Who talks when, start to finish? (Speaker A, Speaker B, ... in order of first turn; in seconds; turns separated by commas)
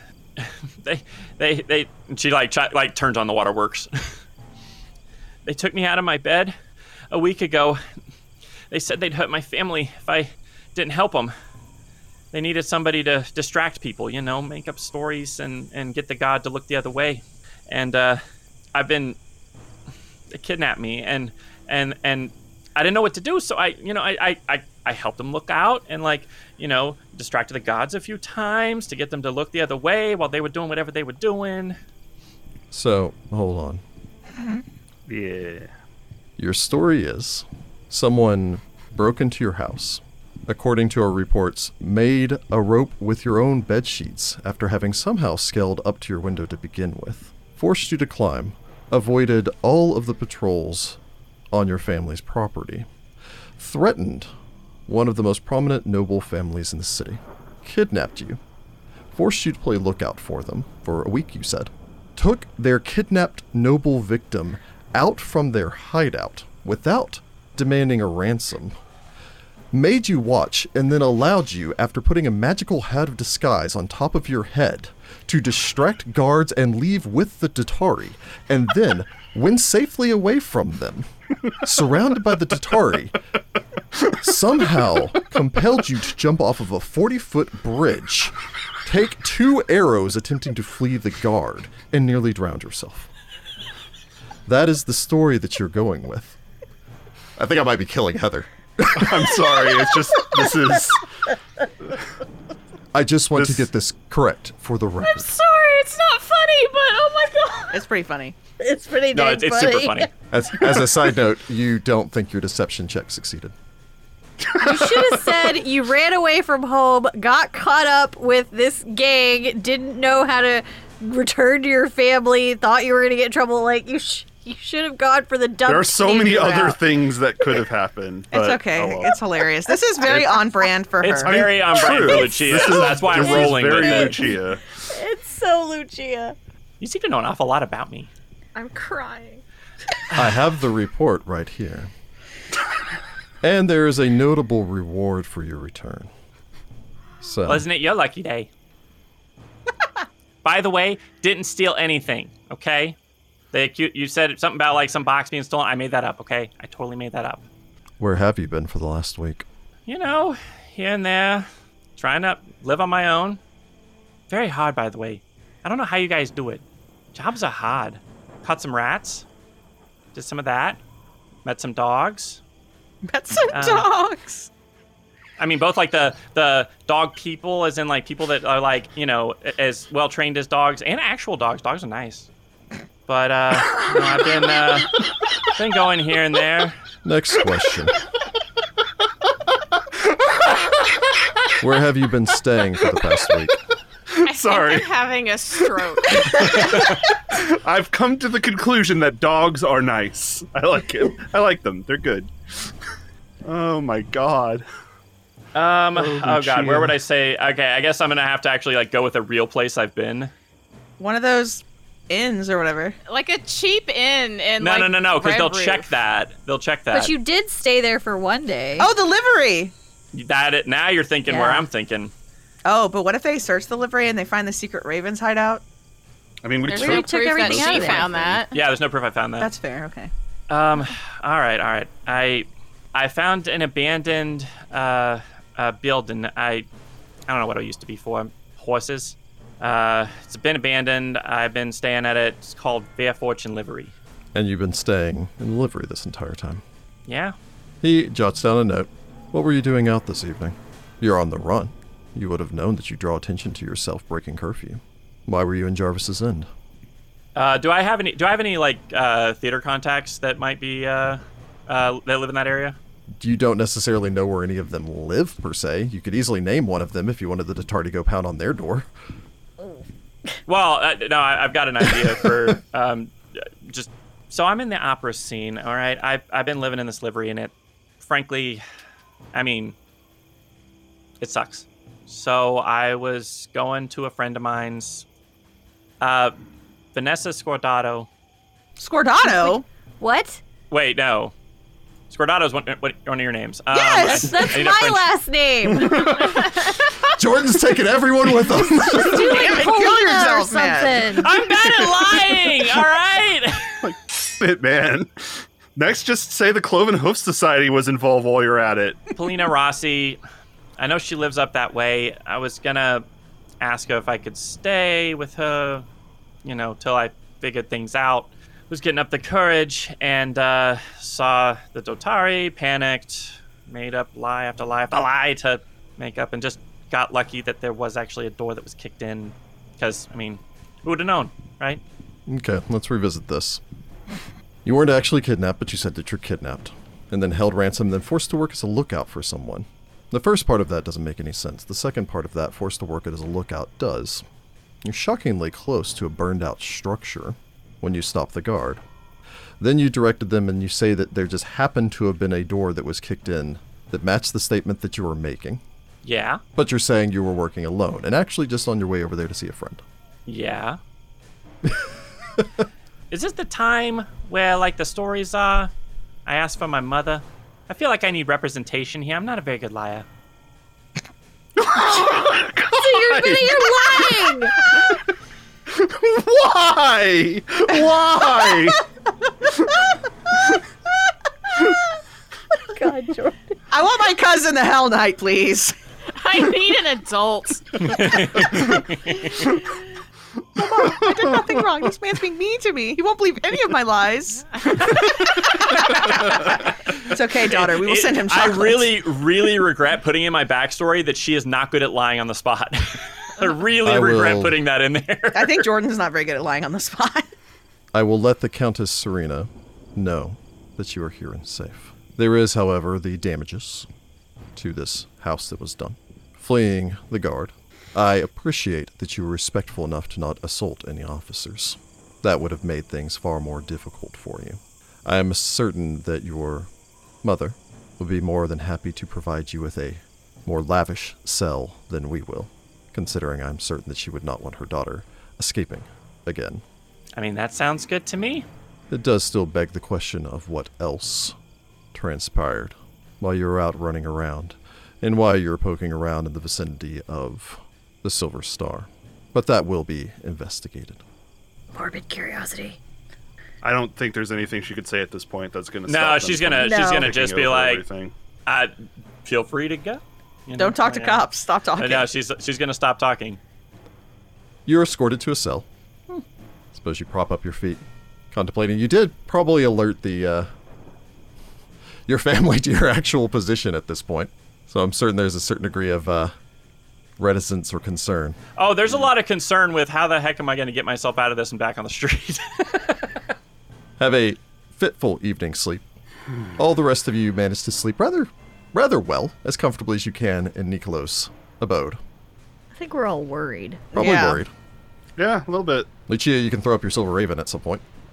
Speaker A: 0.4-4.1, Speaker A: 5.4-6.5, Speaker A: 7.1-7.8, Speaker A: 8.7-11.3, Speaker A: 12.3-18.2, Speaker A: 18.7-19.2, Speaker A: 20.3-31.8, Speaker B: 32.7-33.8, Speaker C: 35.1-35.7, Speaker B: 36.4-51.0, Speaker B: 51.5-52.9, Speaker B: 53.6-54.3, Speaker B: 54.9-58.4, Speaker B: 59.1-68.8, Speaker B: 69.7-83.2, Speaker B: 84.0-93.1, Speaker B: 94.5-96.4, Speaker B: 97.4-99.7, Speaker C: 98.9-101.0, Speaker B: 102.9-105.4, Speaker C: 103.4-103.6, Speaker D: 105.1-107.8, Speaker E: 107.7-108.3, Speaker F: 108.6-110.1, Speaker A: 109.1-110.1, Speaker B: 110.3-113.5, Speaker F: 114.5-126.8, Speaker C: 125.6-129.2, Speaker E: 128.3-132.0, Speaker A: 131.0-134.4, Speaker C: 131.2-134.6, Speaker F: 133.1-134.2, Speaker F: 134.9-136.3, Speaker A: 136.8-138.1, Speaker F: 138.5-139.4, Speaker B: 140.1-141.9, Speaker B: 143.4-146.1, Speaker B: 147.2-147.6, Speaker A: 147.4-148.5, Speaker A: 150.4-152.9, Speaker A: 153.5-157.4, Speaker B: 158.0-159.4, Speaker A: 159.9-163.4, Speaker A: 164.3-166.6, Speaker A: 167.1-169.2, Speaker A: 170.1-170.8, Speaker A: 171.4-172.4, Speaker E: 173.1-174.5, Speaker A: 173.5-173.9, Speaker A: 175.4-182.3, Speaker A: 183.1-186.8, Speaker B: 187.0-187.9, Speaker B: 191.6-193.6, Speaker C: 194.1-194.9, Speaker D: 194.2-196.8, Speaker C: 196.1-202.7, Speaker C: 203.4-204.6, Speaker A: 205.5-210.3, Speaker C: 205.9-206.9, Speaker E: 211.0-212.9, Speaker D: 213.1-215.9, Speaker A: 214.6-217.1, Speaker F: 216.9-218.9, Speaker E: 218.8-219.7, Speaker A: 220.1-222.1, Speaker F: 221.3-221.7, Speaker E: 222.7-225.6, Speaker C: 226.4-228.4, Speaker D: 226.7-228.5, Speaker F: 226.7-228.1, Speaker A: 228.5-229.5, Speaker E: 229.4-230.1, Speaker A: 230.5-236.7, Speaker A: 237.3-243.9, Speaker B: 244.3-246.6, Speaker A: 247.1-247.3, Speaker B: 247.8-256.5, Speaker A: 257.3-262.8, Speaker B: 263.2-268.9, Speaker A: 270.4-278.6, Speaker A: 279.3-279.7, Speaker A: 281.2-285.1, Speaker A: 286.0-286.3, Speaker A: 286.9-288.1, Speaker E: 288.8-289.6, Speaker F: 289.4-290.4, Speaker A: 290.7-291.3, Speaker A: 292.1-295.0, Speaker E: 293.7-294.6, Speaker F: 293.8-296.4, Speaker C: 295.9-296.4, Speaker B: 297.1-299.3, Speaker F: 298.9-301.3, Speaker E: 298.9-301.1, Speaker A: 301.2-303.7, Speaker C: 301.5-302.1, Speaker C: 303.8-309.1, Speaker A: 309.1-310.2, Speaker A: 310.8-313.0, Speaker A: 313.6-315.8, Speaker A: 316.4-331.8, Speaker B: 332.3-333.6, Speaker B: 334.6-344.2, Speaker B: 344.8-348.8, Speaker B: 349.6-355.6, Speaker A: 356.0-356.4, Speaker B: 356.6-359.8, Speaker A: 360.3-360.8, Speaker A: 363.1-365.7, Speaker A: 366.2-370.0, Speaker C: 371.6-373.9, Speaker F: 372.7-374.6, Speaker C: 374.7-374.9, Speaker C: 375.7-378.8, Speaker F: 382.7-383.4, Speaker E: 383.7-385.7, Speaker D: 386.2-387.9, Speaker A: 387.8-389.4, Speaker C: 388.3-388.6, Speaker E: 390.6-398.9, Speaker A: 396.0-396.5, Speaker A: 397.4-405.7, Speaker B: 403.8-404.6, Speaker E: 405.3-407.3, Speaker B: 407.9-413.9, Speaker B: 414.6-426.7, Speaker B: 427.2-436.6, Speaker A: 437.1-438.4, Speaker B: 438.9-441.4, Speaker B: 441.9-451.0, Speaker F: 451.7-452.8, Speaker C: 453.6-458.1, Speaker A: 455.9-457.8, Speaker F: 456.6-457.1, Speaker A: 458.5-463.4, Speaker E: 460.6-462.1, Speaker B: 464.6-465.7, Speaker B: 466.7-470.5, Speaker B: 472.1-476.3, Speaker B: 477.2-478.4, Speaker A: 478.6-483.1, Speaker B: 484.0-485.8, Speaker B: 486.6-492.0, Speaker F: 492.7-493.9, Speaker E: 493.9-494.4, Speaker B: 493.9-494.5, Speaker C: 495.2-495.9, Speaker B: 496.1-497.8